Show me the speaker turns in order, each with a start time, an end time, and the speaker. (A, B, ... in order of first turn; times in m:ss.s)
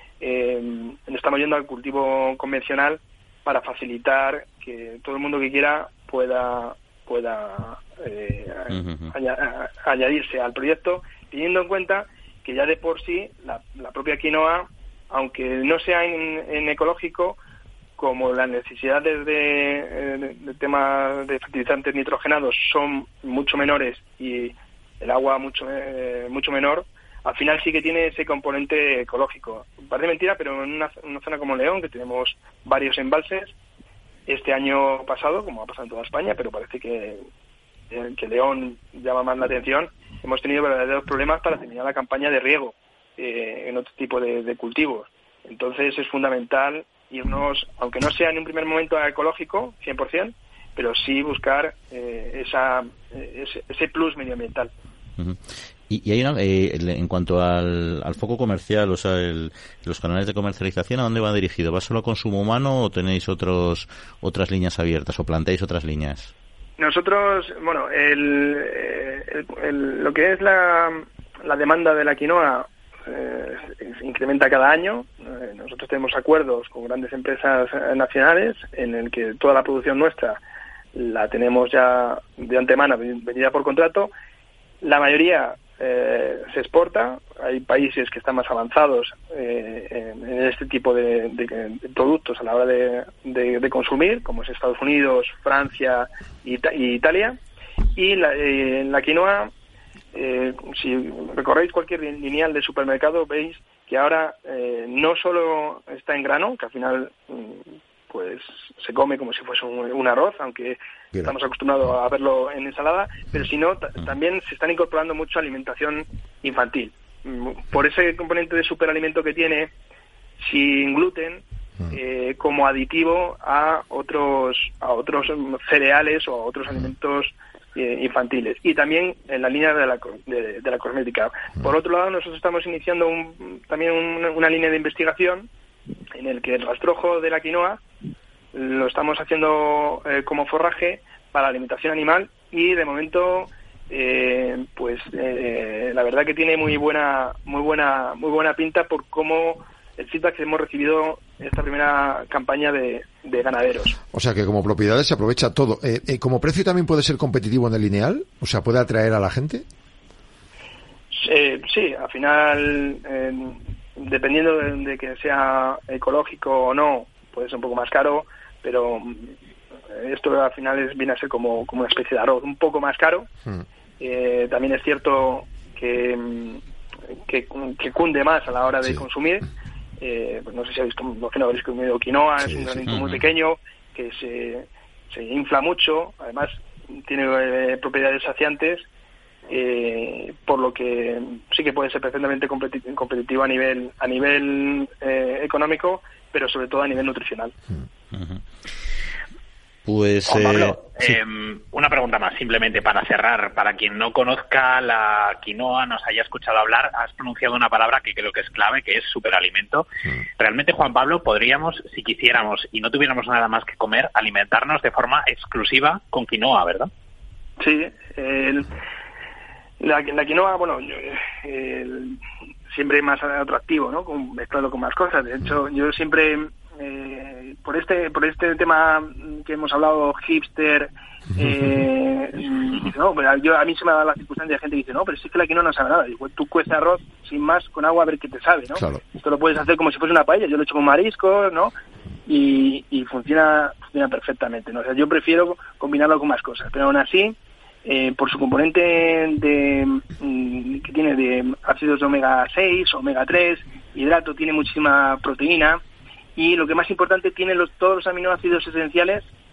0:00.2-0:17.4 A
0:08.7-0:09.1 B
0:18.0-0:33.5 A
0:34.3-0:37.2 A
0:37.9-0:54.7 A
0:55.2-1:06.3 B
1:06.8-1:20.4 A
1:20.9-1:24.1 A
1:24.8-1:37.4 A
1:37.9-1:39.5 A
1:40.1-1:59.7 A
2:00.4-2:15.5 A
2:16.2-2:17.8 A
2:18.5-2:33.9 A
2:34.1-2:39.6 C
2:41.1-2:49.3 A
2:49.9-2:53.3 A
2:54.0-2:56.6 A
2:57.3-2:59.4 A
3:00.0-3:08.9 A
3:02.5-3:02.8 C
3:02.9-3:03.2 B
3:09.5-3:17.5 A
3:18.1-3:18.4 B
3:19.8-3:21.2 B
3:20.2-3:29.8 D
3:30.4-3:36.9 D
3:37.6-3:38.7 A
3:39.8-3:42.2 A
3:42.7-4:01.7 A
3:58.7-3:59.0 C
4:02.3-4:15.8 A
4:16.4-4:19.2 A